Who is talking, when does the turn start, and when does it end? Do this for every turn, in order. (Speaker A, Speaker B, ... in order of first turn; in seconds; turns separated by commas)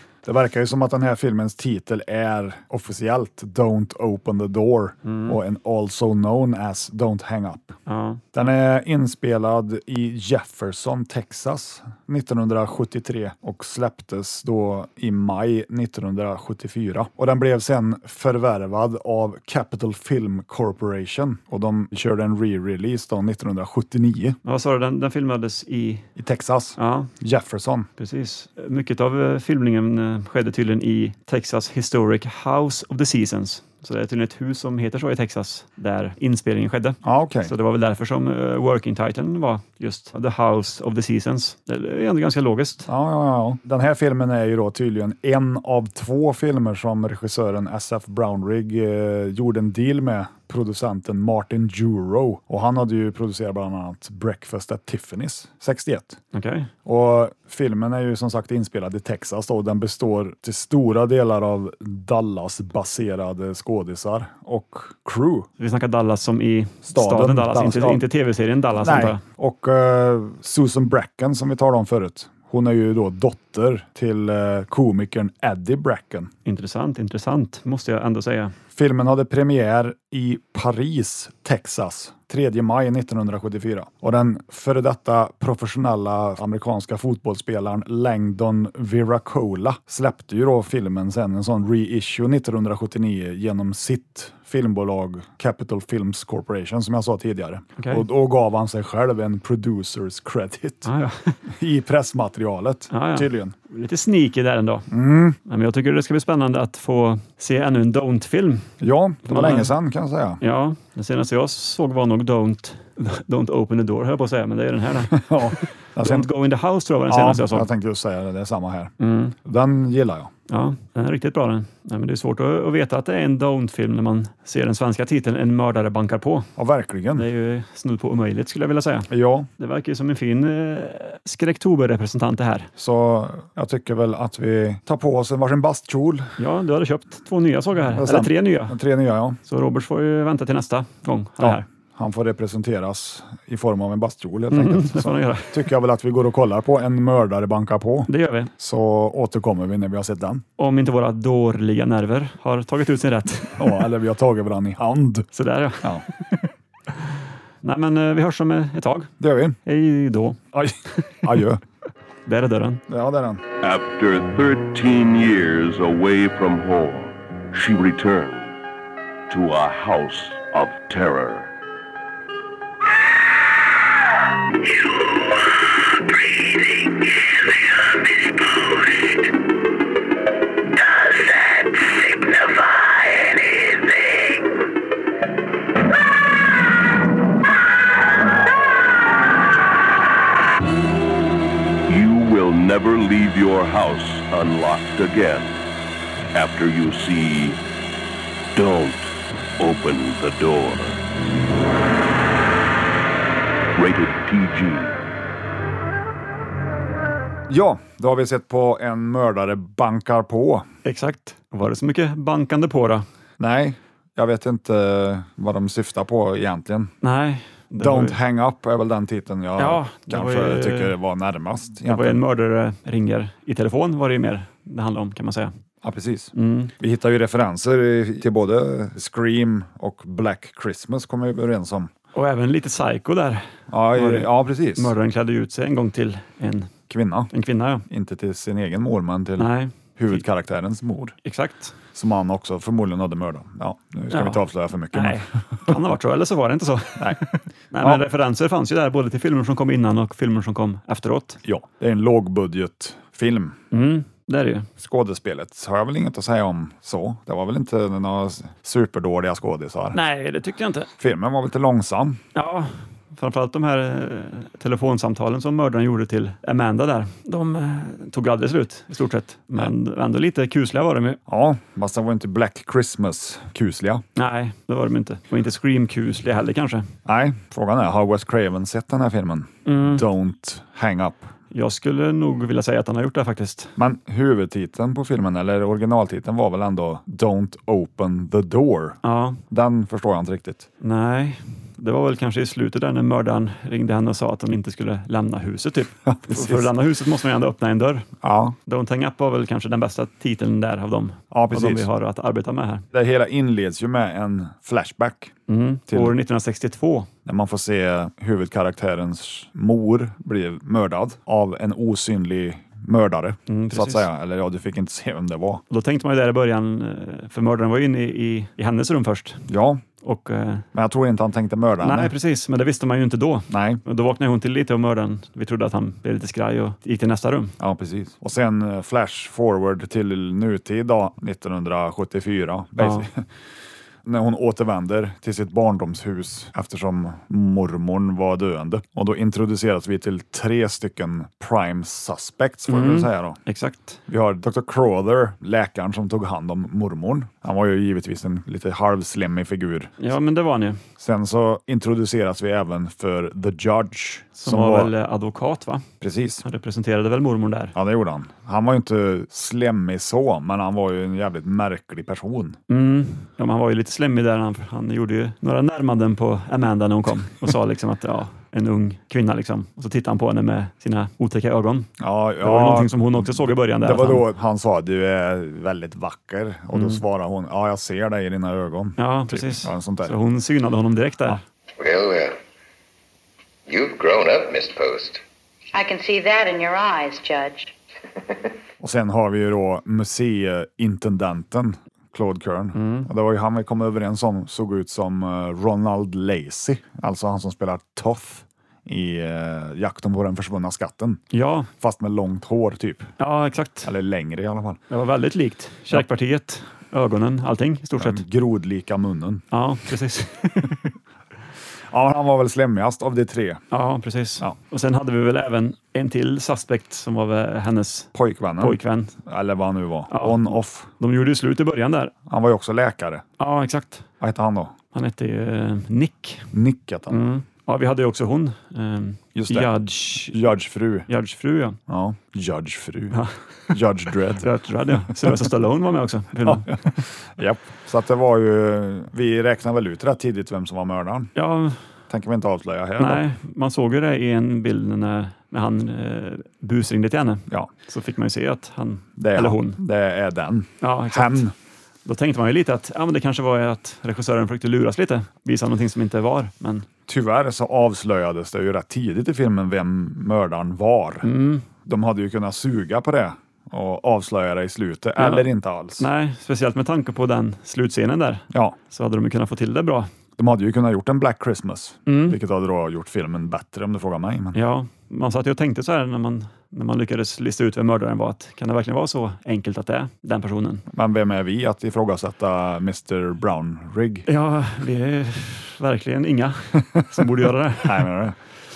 Speaker A: 0.2-7.8, Speaker B: 5.0-5.4, Speaker B: 7.9-8.2, Speaker A: 8.3-24.4, Speaker B: 24.4-26.1, Speaker A: 26.2-27.9, Speaker B: 26.8-27.1, Speaker B: 28.0-42.9, Speaker A: 37.0-37.5, Speaker A: 42.9-56.2, Speaker B: 56.3-56.7, Speaker A: 56.8-65.5, Speaker B: 65.6-69.2, Speaker A: 66.9-68.0, Speaker A: 68.8-76.3, Speaker B: 76.5-78.5, Speaker A: 78.7-100.9, Speaker B: 97.8-98.0, Speaker B: 100.8-101.3, Speaker A: 101.5-103.5, Speaker B: 102.9-104.9, Speaker A: 104.9-105.4, Speaker B: 105.5-108.7, Speaker A: 108.8-110.4, Speaker B: 109.3-109.7, Speaker B: 110.4-117.7, Speaker A: 115.1-116.3, Speaker A: 117.1-118.9, Speaker B: 119.0-119.3, Speaker A: 119.4-120.3, Speaker B: 120.5-126.5, Speaker A: 126.6-127.3, Speaker B: 127.2-132.7, Speaker A: 129.1-129.5, Speaker A: 132.8-136.3, Speaker B: 136.4-138.8, Speaker A: 137.9-139.4, Speaker B: 139.5-141.6, Speaker A: 141.4-150.4, Speaker B: 144.5-145.6, Speaker B: 148.1-148.5, Speaker B: 150.6-153.9, Speaker A: 153.6-155.3, Speaker B: 155.3-156.5, Speaker B: 157.6-159.1, Speaker A: 159.2-159.6, Speaker B: 159.7-160.4, Speaker A: 160.5-161.6, Speaker B: 161.0-161.3, Speaker B: 162.2-162.8, Speaker A: 162.9-163.4, Speaker C: 163.6-168.5, Speaker C: 169.3-171.5, Speaker C: 191.8-195.6, Speaker C: 196.3-197.6, Speaker C: 198.5-201.0, Speaker C: 203.8-205.0, Speaker A: 207.5-210.7, Speaker B: 210.8-213.0, Speaker A: 213.4-216.9, Speaker B: 217.0-218.2, Speaker A: 217.8-222.2, Speaker B: 219.6-220.9, Speaker B: 221.8-225.5, Speaker A: 225.8-231.9, Speaker B: 226.3-226.7, Speaker B: 232.1-236.7, Speaker A: 233.7-234.9, Speaker A: 236.9-237.3, Speaker B: 237.3-237.8, Speaker A: 237.9-241.1, Speaker B: 239.4-240.2, Speaker B: 241.2-241.7, Speaker A: 241.9-245.7, Speaker B: 244.1-244.4, Speaker B: 244.9-251.4, Speaker A: 251.4-253.6, Speaker B: 253.7-254.7, Speaker A: 254.8-260.0, Speaker B: 259.9-260.9, Speaker A: 261.0-262.2, Speaker B: 262.3-271.2, Speaker A: 271.3-274.0, Speaker B: 274.1-276.9, Speaker A: 277.1-281.3, Speaker B: 279.6-280.0, Speaker B: 281.5-283.7, Speaker A: 283.8-289.0, Speaker B: 289.0-289.4, Speaker A: 289.5-290.7, Speaker B: 290.8-298.1, Speaker A: 296.1-296.7, Speaker A: 298.2-298.6, Speaker B: 298.7-302.8, Speaker A: 301.3-301.9, Speaker A: 302.9-305.3, Speaker B: 305.5-307.1, Speaker A: 305.9-306.1, Speaker A: 307.2-315.6, Speaker B: 313.5-314.0, Speaker B: 315.7-319.4, Speaker A: 319.5-319.8, Speaker B: 320.0-320.7, Speaker A: 320.7-322.1, Speaker B: 321.8-327.5, Speaker A: 323.5-323.8, Speaker A: 327.6-333.2, Speaker B: 332.8-333.1, Speaker A: 334.0-343.4, Speaker B: 342.7-344.0, Speaker A: 344.1-349.9, Speaker B: 350.0-350.8, Speaker A: 351.0-354.9, Speaker B: 354.4-355.9, Speaker A: 356.0-356.4, Speaker B: 356.4-357.7, Speaker A: 357.7-362.6, Speaker B: 362.7-374.2, Speaker A: 372.0-380.1, Speaker B: 376.7-377.0, Speaker B: 379.0-381.4, Speaker D: 381.8-382.3, Speaker D: 383.7-385.2, Speaker E: 385.7-387.7, Speaker A: 388.8-401.2, Speaker B: 392.7-393.1, Speaker B: 401.3-401.7, Speaker A: 401.8-403.1, Speaker B: 403.2-403.9, Speaker A: 403.8-404.8, Speaker B: 404.9-408.2, Speaker A: 408.0-409.4, Speaker B: 409.5-410.9, Speaker A: 411.9-413.6, Speaker B: 413.7-419.2, Speaker A: 418.1-420.9, Speaker B: 420.1-422.1, Speaker A: 422.3-423.2, Speaker B: 423.4-424.1, Speaker A: 424.2-424.8, Speaker B: 424.9-426.5, Speaker A: 426.5-427.2, Speaker B: 427.1-430.5, Speaker A: 429.3-431.1, Speaker B: 431.1-431.8, Speaker A: 431.9-434.5, Speaker B: 433.1-433.8, Speaker B: 434.4-436.8, Speaker A: 436.4-441.3, Speaker B: 441.4-441.8, Speaker A: 442.1-443.2, Speaker B: 443.0-449.8, Speaker A: 449.2-451.5, Speaker B: 450.8-451.5, Speaker B: 452.1-456.9, Speaker A: 457.1-461.3, Speaker B: 461.2-461.6, Speaker A: 461.9-466.1, Speaker B: 465.2-470.1, Speaker A: 470.4-474.6, Speaker B: 472.1-472.4, Speaker B: 474.5-480.8, Speaker A: 480.9-484.3, Speaker B: 484.3-488.1, Speaker A: 487.8-488.4